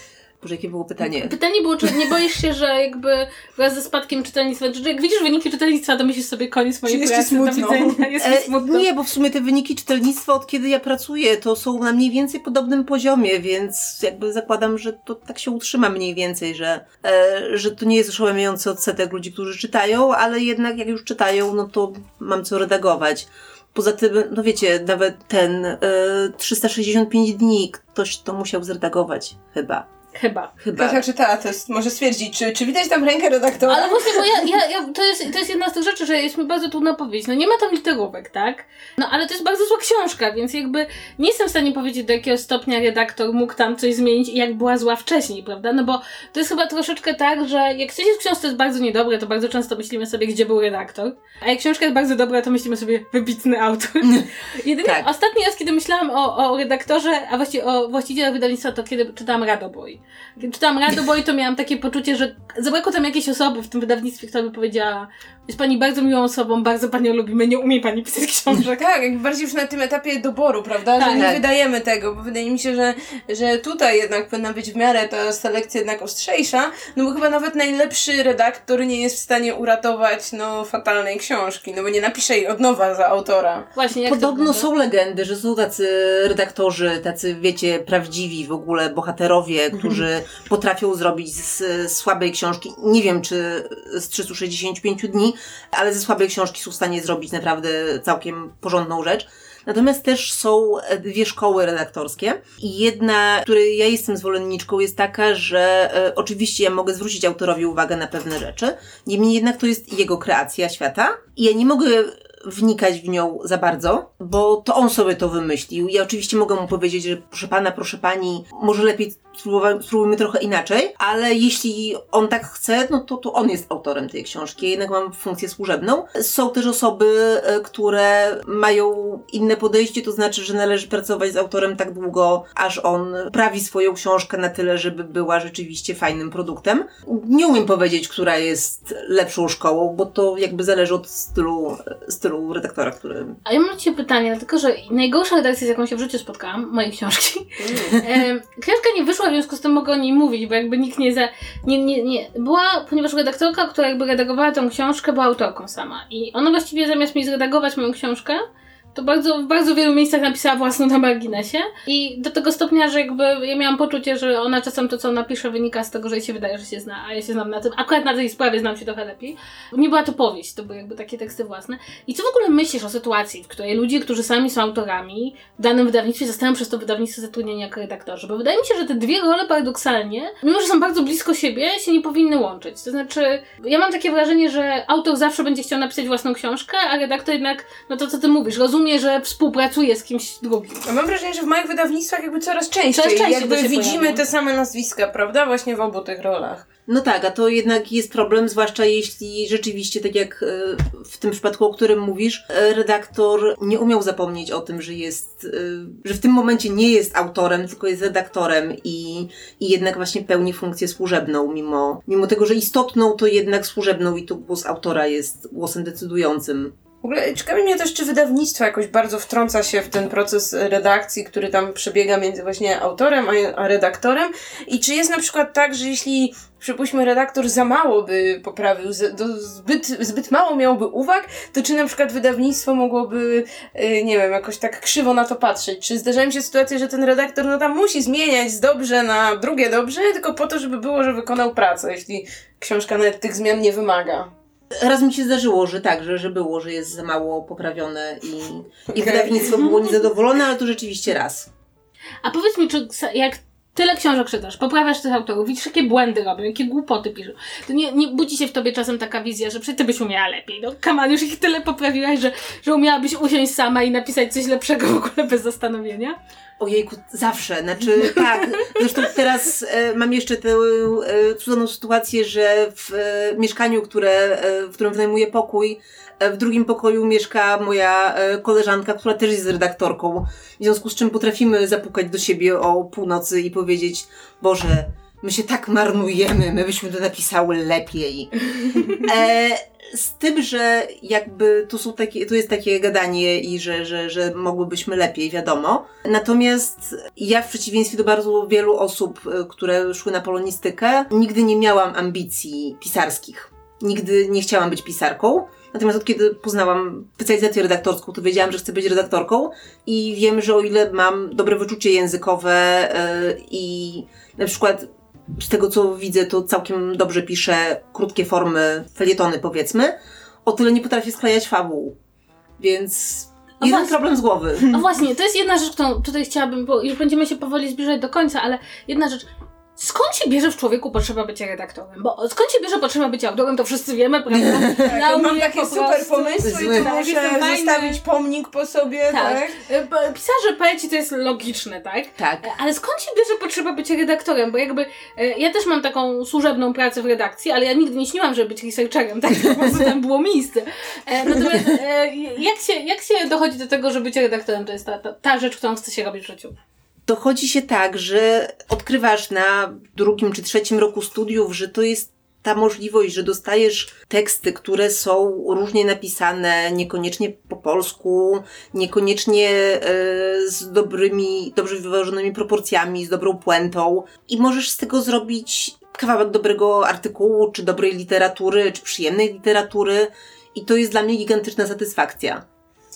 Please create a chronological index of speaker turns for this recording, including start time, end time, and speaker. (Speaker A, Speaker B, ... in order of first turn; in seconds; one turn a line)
Speaker A: 0.4-1.3
Speaker B: 1.2-8.9
Speaker C: 6.9-8.1
Speaker A: 8.2-29.9
Speaker B: 30.1-30.5
Speaker A: 30.6-31.0
Speaker C: 30.8-34.3
Speaker B: 33.7-68.8
Speaker A: 54.8-55.1
Speaker C: 68.8-83.7
Speaker B: 71.0-71.4
Speaker A: 71.1-71.4
Speaker B: 83.7-84.7
Speaker A: 84.0-143.4
Speaker B: 143.4-190.9
Speaker C: 147.6-148.0
Speaker C: 190.9-196.6
Speaker B: 192.9-194.2
Speaker A: 196.9-216.7
Speaker C: 217.0-244.3
Speaker A: 244.7-251.5
Speaker C: 248.9-249.7
Speaker B: 252.2-266.1
Speaker A: 266.6-288.3
Speaker A: 288.9-321.9
Speaker A: 322.6-324.8
Speaker B: 323.6-323.9
Speaker B: 324.6-338.0
Speaker A: 334.3-334.9
Speaker C: 334.9-339.6
Speaker A: 336.4-336.9
Speaker B: 339.1-356.6
Speaker A: 342.2-342.5
Speaker A: 351.4-351.7
Speaker A: 357.1-382.4